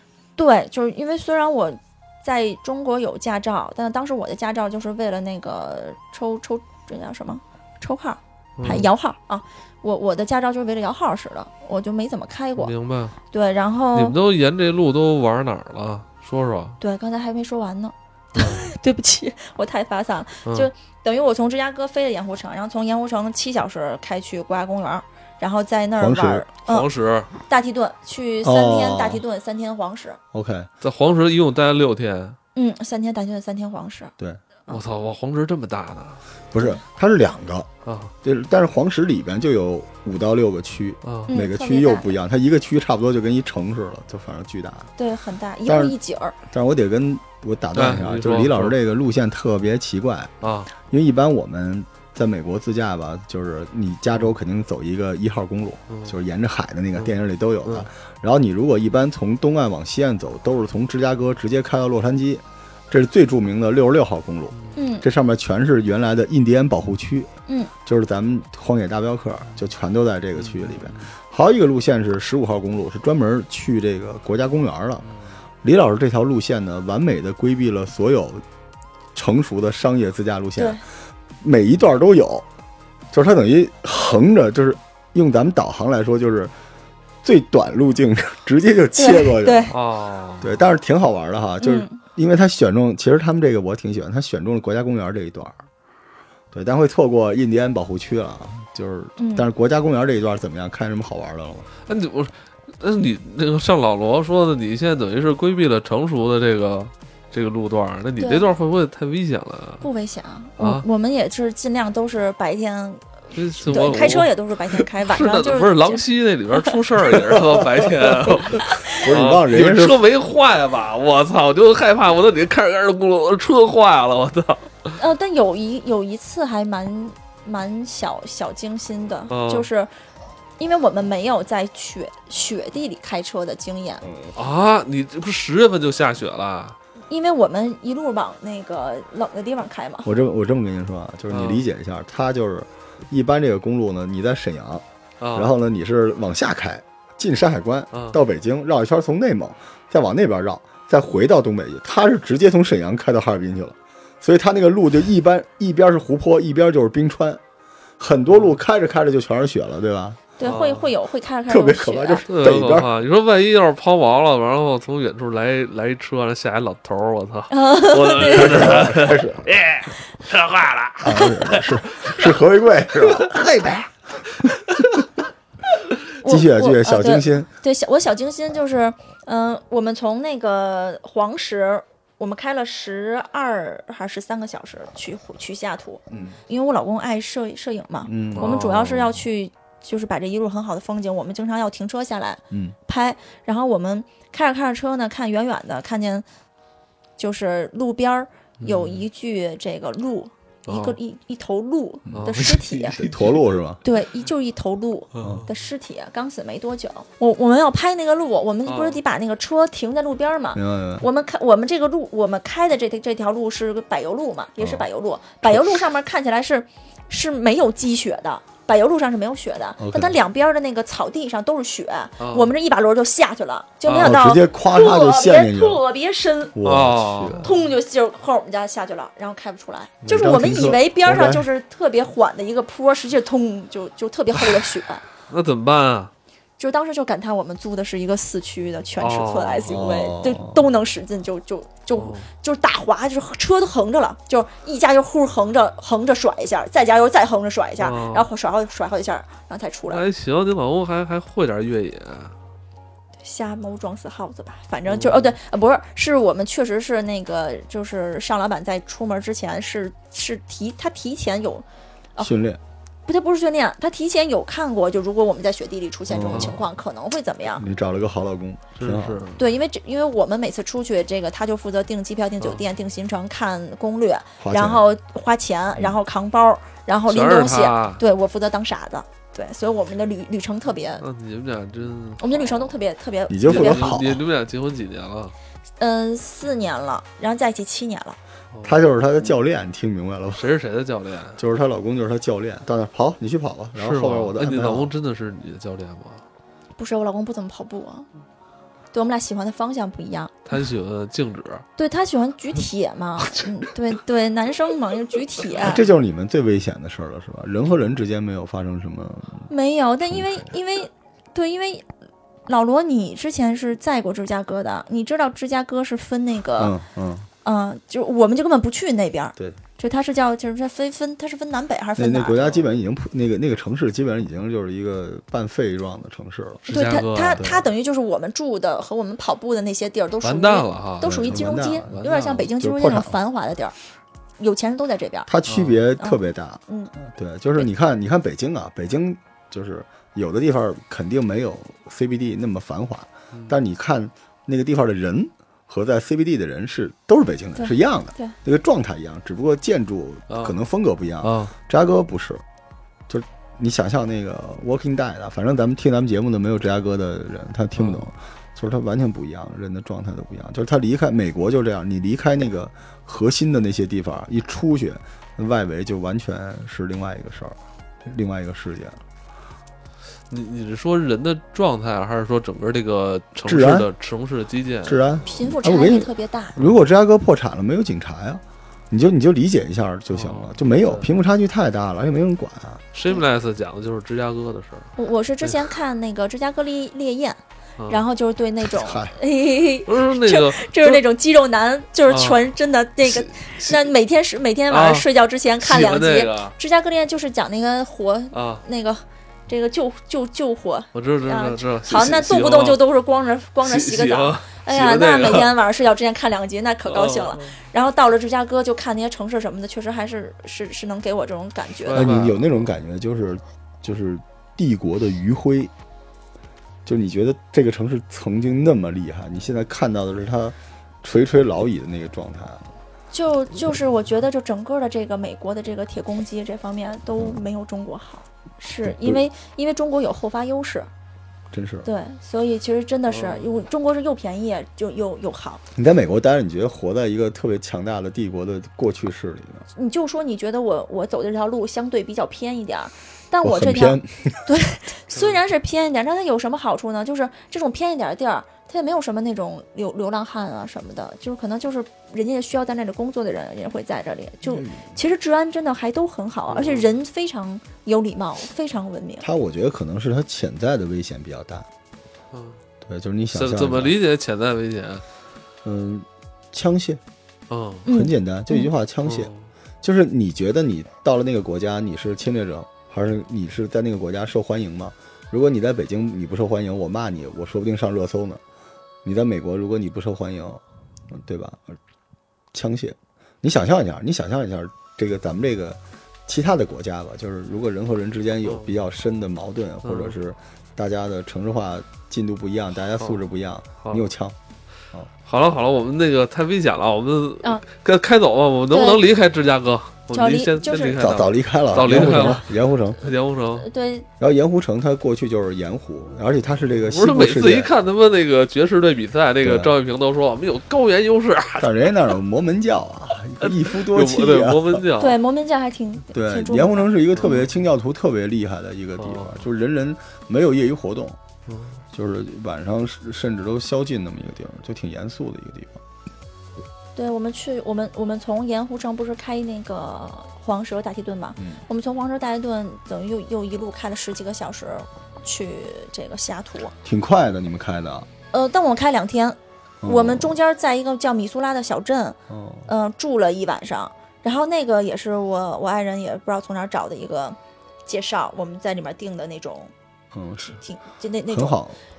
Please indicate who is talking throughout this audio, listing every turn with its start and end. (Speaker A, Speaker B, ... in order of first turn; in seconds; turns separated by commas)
Speaker A: 0.4-12.7, Speaker B: 8.6-8.9, Speaker B: 12.6-13.2, Speaker A: 13.3-14.2, Speaker B: 13.9-16.8, Speaker A: 16.8-26.9, Speaker B: 18.4-18.6, Speaker C: 26.0-26.5, Speaker B: 26.7-27.3, Speaker A: 27.4-30.2, Speaker C: 28.4-29.2, Speaker C: 30.3-30.7, Speaker B: 30.8-32.4, Speaker A: 32.5-34.1, Speaker B: 34.7-36.2, Speaker C: 36.5-37.7, Speaker B: 37.9-38.1, Speaker C: 38.2-44.9, Speaker B: 41.0-41.3, Speaker A: 41.3-42.1, Speaker A: 45.0-46.4, Speaker C: 45.7-46.0, Speaker C: 46.5-50.3, Speaker B: 47.8-48.8, Speaker B: 50.4-50.7, Speaker C: 50.9-67.3, Speaker B: 55.9-56.1, Speaker B: 57.0-57.9, Speaker B: 64.5-64.8, Speaker A: 64.8-65.1, Speaker A: 67.5-67.7, Speaker C: 67.8-75.0, Speaker B: 70.4-71.1, Speaker B: 75.0-75.4, Speaker C: 75.6-78.4, Speaker C: 79.2-80.8, Speaker A: 80.6-80.8, Speaker C: 81.4-82.5, Speaker C: 83.1-86.5, Speaker C: 87.2-89.7, Speaker A: 89.0-89.7, Speaker B: 89.7-90.6, Speaker C: 90.4-95.6, Speaker A: 91.6-92.0, Speaker C: 96.5-101.7, Speaker A: 99.2-99.5, Speaker B: 101.9-109.9, Speaker A: 108.2-108.5, Speaker A: 109.8-116.0, Speaker B: 110.6-110.8, Speaker B: 113.3-125.0, Speaker C: 117.2-117.6, Speaker A: 118.7-119.0, Speaker C: 119.0-120.0, Speaker A: 125.0-129.9, Speaker B: 129.3-129.7, Speaker A: 130.6-134.1, Speaker C: 134.0-134.4, Speaker B: 134.4-136.8, Speaker A: 137.1-140.1, Speaker C: 140.1-157.4, Speaker B: 141.3-141.7, Speaker B: 145.2-145.5, Speaker B: 147.9-148.2, Speaker C: 158.0-160.2, Speaker B: 158.3-158.6, Speaker A: 160.4-162.3, Speaker B: 160.4-160.9, Speaker C: 161.5-162.9, Speaker B: 162.3-172.3, Speaker A: 167.5-168.9, Speaker C: 168.3-169.5, Speaker C: 171.0-173.9, Speaker B: 173.0-173.4, Speaker B: 174.7-175.1, Speaker A: 176.2-196.3, Speaker C: 176.2-177.5, Speaker C: 186.1-186.4, Speaker C: 188.1-189.1, Speaker B: 188.3-189.0, Speaker C: 192.5-192.8, Speaker A: 197.2-203.0, Speaker B: 198.6-199.0, Speaker B: 200.7-201.0, Speaker C: 202.1-202.4, Speaker B: 202.2-203.6, Speaker C: 202.9-203.8, Speaker A: 203.8-226.6, Speaker B: 208.7-209.0, Speaker C: 210.6-211.1, Speaker C: 214.6-214.8, Speaker C: 215.4-215.8, Speaker C: 219.8-220.2, Speaker B: 222.2-222.5, Speaker B: 223.9-224.1, Speaker C: 223.9-225.8, Speaker C: 226.6-227.5, Speaker B: 226.7-227.6, Speaker A: 227.4-235.0, Speaker C: 230.0-231.5, Speaker B: 235.3-236.1, Speaker A: 236.6-250.0, Speaker B: 239.0-239.8, Speaker C: 239.7-240.6, Speaker B: 242.0-242.3, Speaker B: 247.8-248.3, Speaker B: 249.9-252.4, Speaker A: 253.2-262.3, Speaker B: 254.9-255.4, Speaker C: 262.2-262.6, Speaker A: 263.1-267.6, Speaker C: 266.1-266.6, Speaker B: 266.3-266.6, Speaker C: 267.6-269.2, Speaker B: 268.8-269.4, Speaker A: 269.4-281.0, Speaker C: 274.4-274.8, Speaker B: 277.1-278.0, Speaker B: 281.0-282.8, Speaker A: 282.2-284.0, Speaker C: 283.3-284.2, Speaker B: 283.4-285.3, Speaker A: 285.8-288.2, Speaker B: 288.5-288.8, Speaker C: 288.6-290.5, Speaker B: 290.4-291.4, Speaker C: 291.4-294.9, Speaker B: 293.8-296.2, Speaker A: 296.8-298.1, Speaker A: 298.9-300.4, Speaker B: 300.5-301.6, Speaker A: 301.8-305.8, Speaker C: 305.6-309.5, Speaker A: 309.5-311.9, Speaker C: 310.1-310.5, Speaker A: 312.5-316.8, Speaker C: 316.6-317.3, Speaker A: 317.4-322.6, Speaker C: 322.0-326.7, Speaker B: 326.7-327.4, Speaker A: 326.7-333.8, Speaker C: 327.4-327.7, Speaker B: 330.2-332.5, Speaker C: 331.0-332.0, Speaker C: 332.6-333.2, Speaker A: 334.4-335.3, Speaker C: 335.3-352.4, Speaker B: 335.5-335.8, Speaker A: 336.0-336.9, Speaker B: 343.3-343.6, Speaker A: 347.6-348.4, Speaker B: 350.3-350.6, Speaker B: 351.2-351.5, Speaker C: 353.1-369.0, Speaker B: 357.8-358.1, Speaker B: 370.3-375.5, Speaker C: 373.4-373.9, Speaker C: 374.9-382.8, Speaker A: 375.3-376.6, Speaker B: 380.1-381.1, Speaker B: 382.9-384.9, Speaker A: 385.0-412.1, Speaker B: 387.8-388.1, Speaker C: 388.7-389.1, Speaker B: 389.9-391.0, Speaker B: 392.1-392.4, Speaker B: 393.0-393.9, Speaker B: 394.7-395.1, Speaker B: 395.6-396.6, Speaker B: 398.3-398.6, Speaker B: 400.9-402.8, Speaker B: 403.6-405.6, Speaker B: 406.9-407.6, Speaker B: 411.9-412.6, Speaker C: 411.9-415.7, Speaker C: 416.9-422.7, Speaker A: 423.1-430.9, Speaker C: 428.8-429.2, Speaker C: 431.5-431.9, Speaker A: 431.8-435.6, Speaker B: 433.1-433.6, Speaker C: 435.8-439.7, Speaker A: 439.7-459.3, Speaker C: 443.4-444.4, Speaker B: 445.1-445.4, Speaker C: 454.5-454.9, Speaker B: 456.5-457.0, Speaker C: 459.2-461.7, Speaker B: 462.3-462.6, Speaker C: 462.9-464.0, Speaker B: 463.3-465.0, Speaker C: 465.6-467.0, Speaker B: 467.5-467.9, Speaker A: 467.9-468.7, Speaker C: 467.9-469.3, Speaker B: 469.1-469.5, Speaker C: 469.8-478.4, Speaker C: 479.0-481.8, Speaker C: 482.5-494.4, Speaker B: 489.8-490.2, Speaker B: 493.8-494.1, Speaker B: 495.3-502.5, Speaker A: 498.7-499.0, Speaker A: 500.1-501.0, Speaker C: 501.0-503.0, Speaker A: 501.8-502.4, Speaker B: 503.0-503.7, Speaker A: 503.6-504.1, Speaker C: 504.2-507.7, Speaker B: 506.9-511.9, Speaker C: 509.4-509.8, Speaker C: 511.6-514.8, Speaker B: 513.4-515.2, Speaker A: 515.0-517.0, Speaker C: 516.1-521.2, Speaker B: 517.2-517.5, Speaker B: 519.0-519.4, Speaker B: 521.5-521.8, Speaker C: 521.9-525.8, Speaker A: 527.0-536.8, Speaker C: 536.8-538.1, Speaker A: 538.3-549.7, Speaker C: 539.8-540.4, Speaker C: 542.3-542.7, Speaker C: 550.1-550.6, Speaker A: 550.6-551.6, Speaker C: 551.3-551.8